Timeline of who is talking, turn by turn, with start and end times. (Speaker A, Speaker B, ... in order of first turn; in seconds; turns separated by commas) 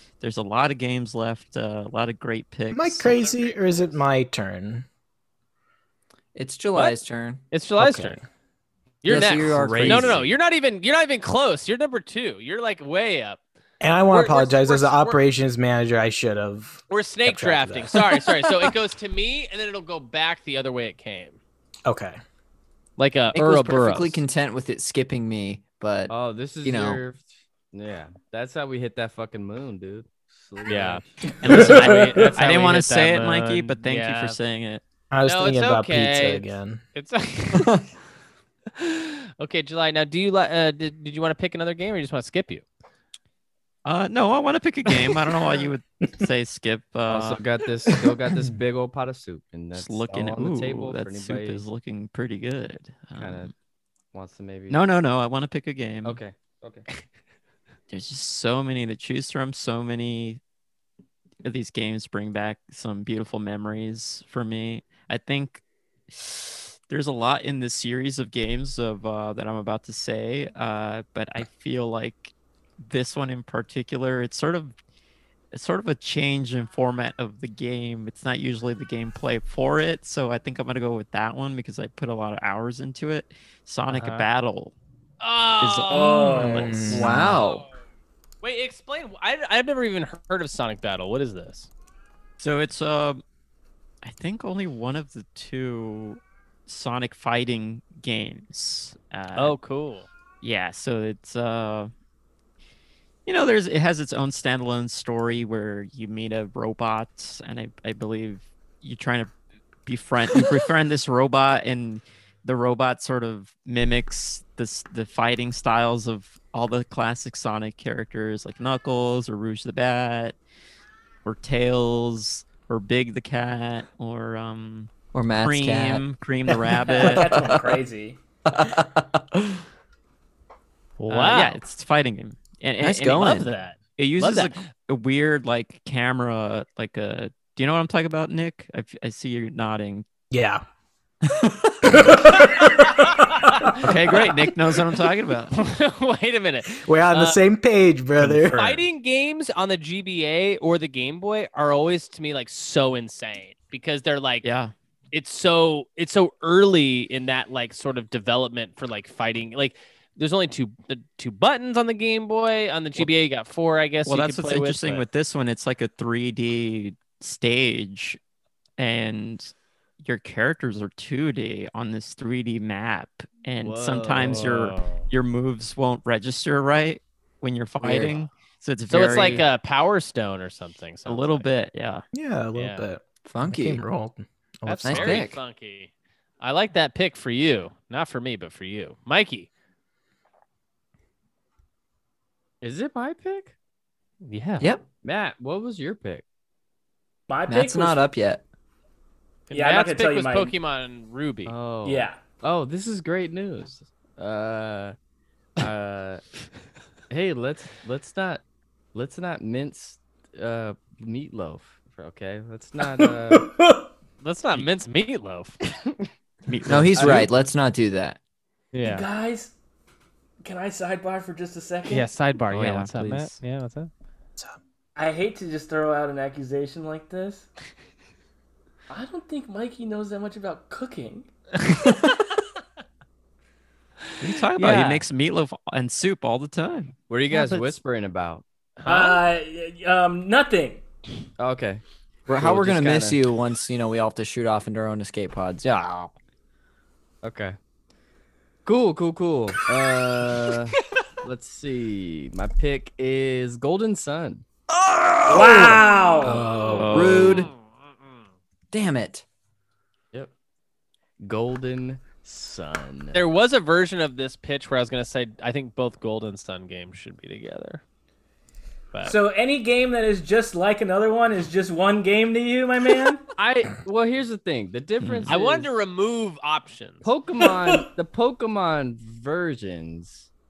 Speaker A: 0.2-3.2, Speaker B: 2.7-4.8, Speaker C: 3.1-4.0, Speaker D: 6.3-7.4, Speaker C: 7.5-8.2, Speaker B: 7.8-8.2, Speaker C: 9.0-13.4, Speaker D: 9.1-10.2, Speaker B: 13.8-18.5, Speaker C: 14.1-15.2, Speaker C: 16.9-21.4, Speaker B: 21.9-22.2, Speaker C: 23.0-24.2, Speaker D: 23.3-27.0, Speaker E: 26.1-31.1, Speaker C: 30.7-34.4, Speaker A: 31.4-34.8, Speaker F: 31.4-32.3, Speaker B: 35.1-36.8, Speaker C: 35.2-37.7, Speaker C: 38.8-42.6, Speaker A: 43.8-47.4, Speaker E: 47.1-51.6, Speaker A: 49.7-53.5, Speaker E: 53.1-53.5, Speaker E: 54.1-54.8, Speaker A: 54.7-56.2, Speaker E: 56.0-56.9, Speaker A: 57.9-60.4, Speaker A: 61.4-74.7, Speaker A: 75.5-84.7, Speaker C: 83.9-84.3, Speaker C: 85.2-87.6, Speaker A: 85.6-87.4, Speaker B: 85.9-87.1, Speaker D: 86.9-87.6, Speaker C: 88.4-91.7, Speaker A: 92.4-93.2, Speaker A: 94.0-99.5, Speaker C: 99.3-100.1, Speaker A: 100.4-101.9, Speaker A: 103.2-109.3, Speaker A: 109.8-120.4, Speaker A: 121.2-127.5, Speaker D: 125.1-127.8, Speaker F: 126.9-128.2, Speaker D: 128.5-129.6, Speaker C: 131.0-131.6, Speaker A: 131.1-140.1, Speaker D: 132.8-133.4, Speaker C: 133.1-134.6, Speaker B: 140.3-140.6, Speaker B: 141.9-142.8, Speaker A: 143.8-145.6, Speaker C: 145.5-147.4, Speaker B: 146.7-148.8, Speaker A: 148.2-148.6, Speaker C: 148.5-154.4, Speaker A: 154.4-154.7, Speaker C: 155.1-165.0, Speaker A: 164.1-168.2, Speaker A: 168.8-179.5, Speaker E: 173.6-174.6, Speaker C: 174.2-175.0, Speaker D: 177.8-178.1, Speaker C: 178.9-181.5, Speaker D: 179.0-179.4, Speaker A: 181.1-182.0, Speaker B: 182.1-185.3, Speaker C: 182.5-182.8, Speaker D: 183.2-183.8, Speaker C: 184.6-189.5, Speaker D: 184.8-185.4, Speaker E: 192.6-193.5, Speaker C: 194.2-194.7, Speaker D: 194.6-194.8, Speaker E: 195.0-196.2, Speaker F: 197.3-198.0, Speaker D: 197.5-198.4, Speaker C: 199.5-201.5, Speaker F: 199.5-200.5, Speaker E: 201.5-204.9, Speaker F: 201.8-202.2, Speaker E: 205.6-206.2, Speaker E: 207.1-208.4, Speaker E: 208.9-213.5, Speaker F: 213.0-213.9, Speaker C: 214.2-215.6, Speaker A: 216.5-217.3, Speaker D: 216.7-218.2, Speaker E: 216.9-217.3, Speaker C: 218.7-219.1, Speaker F: 218.8-219.5, Speaker F: 220.4-222.1, Speaker C: 221.9-223.9, Speaker A: 222.5-223.4, Speaker F: 224.9-227.4, Speaker F: 228.9-231.3, Speaker A: 234.2-236.9, Speaker C: 234.5-235.0, Speaker E: 237.1-238.4, Speaker C: 237.3-237.7, Speaker C: 238.8-239.3, Speaker F: 238.8-240.8, Speaker E: 241.4-241.8, Speaker D: 242.3-246.1, Speaker E: 242.4-243.2, Speaker E: 247.2-247.6, Speaker E: 248.6-254.4, Speaker F: 255.3-256.6, Speaker D: 255.3-257.5, Speaker A: 256.6-257.4, Speaker E: 256.7-257.1, Speaker C: 257.0-257.6, Speaker D: 258.7-259.2, Speaker E: 261.2-263.2, Speaker C: 263.1-267.8, Speaker F: 269.0-273.2, Speaker E: 273.4-275.7, Speaker A: 275.0-275.3, Speaker C: 275.3-277.1, Speaker E: 277.0-280.3